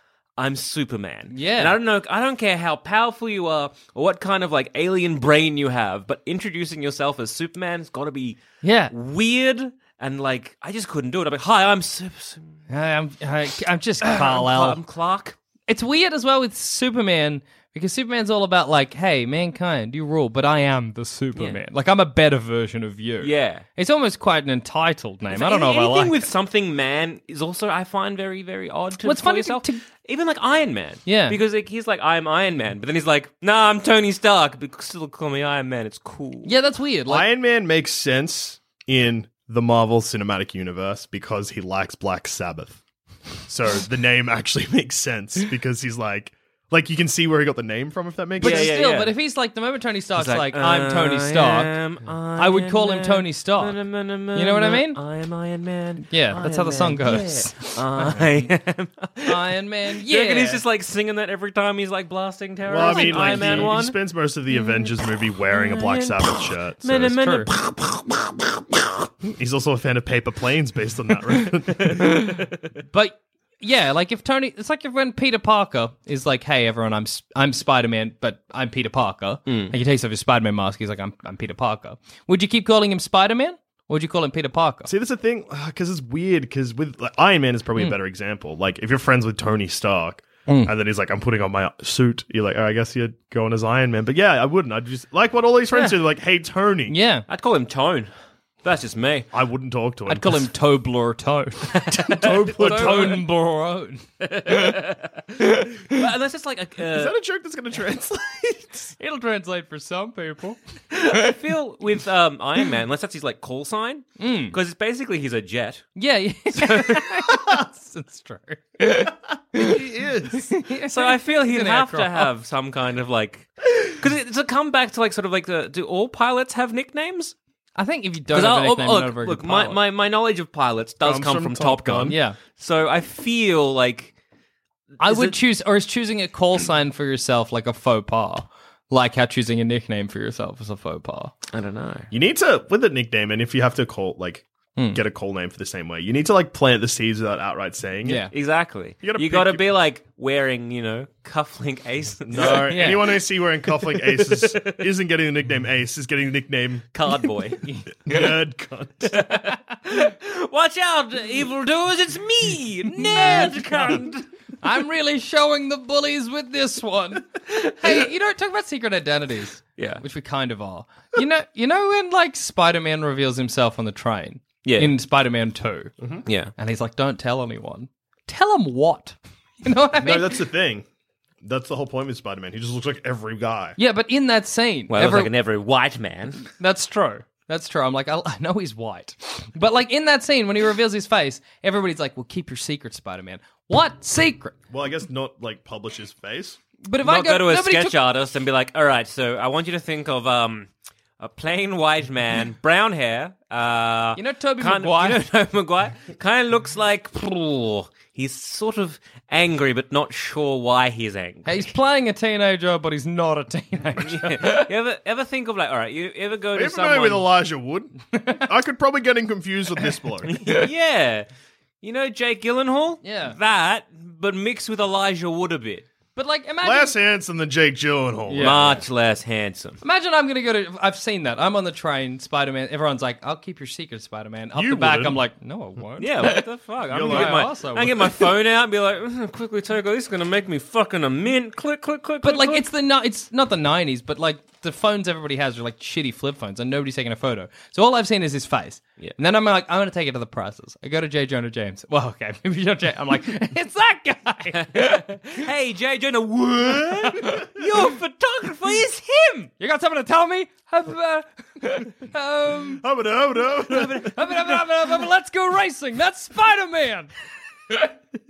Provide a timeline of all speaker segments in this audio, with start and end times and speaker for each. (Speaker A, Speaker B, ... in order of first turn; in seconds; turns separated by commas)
Speaker A: 0.4-12.6, Speaker B: 1.3-1.7, Speaker B: 8.6-8.9, Speaker B: 12.7-14.8, Speaker A: 14.0-15.4, Speaker B: 15.7-26.3, Speaker A: 23.2-23.6, Speaker A: 25.3-36.5, Speaker B: 29.0-29.8, Speaker B: 31.1-31.4, Speaker B: 36.5-37.3, Speaker C: 37.1-42.8, Speaker C: 43.5-48.7, Speaker B: 48.4-51.7, Speaker A: 48.4-49.2, Speaker A: 50.2-64.0, Speaker B: 52.4-53.8, Speaker B: 54.3-55.0, Speaker B: 56.1-58.5, Speaker B: 59.3-60.6, Speaker C: 62.7-67.2, Speaker B: 62.8-63.8, Speaker A: 65.5-69.1, Speaker B: 67.2-67.5, Speaker C: 69.2-72.3, Speaker B: 72.9-84.9, Speaker A: 79.5-79.7, Speaker C: 84.9-97.0, Speaker B: 90.5-90.7, Speaker B: 96.9-97.3, Speaker A: 97.3-98.1, Speaker A: 98.6-99.3, Speaker C: 99.3-100.5, Speaker B: 100.1-104.0, Speaker C: 102.1-103.2, Speaker A: 102.1-103.2, Speaker A: 104.2-107.1, Speaker C: 106.9-108.9, Speaker B: 109.0-110.6, Speaker A: 110.9-115.9, Speaker B: 114.2-114.5, Speaker B: 116.0-119.8, Speaker A: 116.5-117.2, Speaker C: 119.7-120.5, Speaker B: 120.3-122.3, Speaker A: 120.9-127.3, Speaker B: 127.8-129.8, Speaker A: 128.3-134.1, Speaker C: 131.0-132.2, Speaker B: 132.1-132.4, Speaker B: 135.0-141.3, Speaker A: 135.0-135.4, Speaker A: 141.5-142.1, Speaker C: 142.1-148.3, Speaker B: 148.1-148.3, Speaker A: 148.3-152.9, Speaker C: 149.0-149.6, Speaker C: 152.3-156.9, Speaker B: 152.4-153.2, Speaker A: 154.3-154.7, Speaker A: 156.9-158.2, Speaker C: 158.1-159.1, Speaker A: 159.1-164.2, Speaker B: 162.9-164.0, Speaker B: 164.6-175.9, Speaker A: 169.8-170.0, Speaker A: 174.6-174.9, Speaker C: 176.0-176.2, Speaker A: 176.3-176.5, Speaker B: 176.6-180.4, Speaker C: 180.0-180.8, Speaker C: 181.4-183.8, Speaker B: 183.8-185.3, Speaker A: 184.9-186.4, Speaker B: 186.5-194.5, Speaker C: 194.7-196.6, Speaker B: 196.9-197.9, Speaker A: 197.0-200.7, Speaker A: 201.2-211.7, Speaker B: 204.2-205.2, Speaker B: 211.5-214.7, Speaker A: 214.0-217.3, Speaker C: 216.5-220.4, Speaker B: 218.1-218.4, Speaker A: 220.3-221.3, Speaker A: 221.8-225.9, Speaker B: 223.0-223.4, Speaker B: 226.2-226.9, Speaker C: 226.6-228.8, Speaker B: 228.3-228.7, Speaker A: 228.4-229.8, Speaker B: 229.8-236.4, Speaker C: 234.5-235.2, Speaker A: 236.0-242.7, Speaker C: 236.9-237.5, Speaker B: 237.1-238.1, Speaker B: 242.2-255.2, Speaker A: 254.6-259.5, Speaker B: 259.6-262.8, Speaker C: 262.8-264.1, Speaker B: 263.7-267.1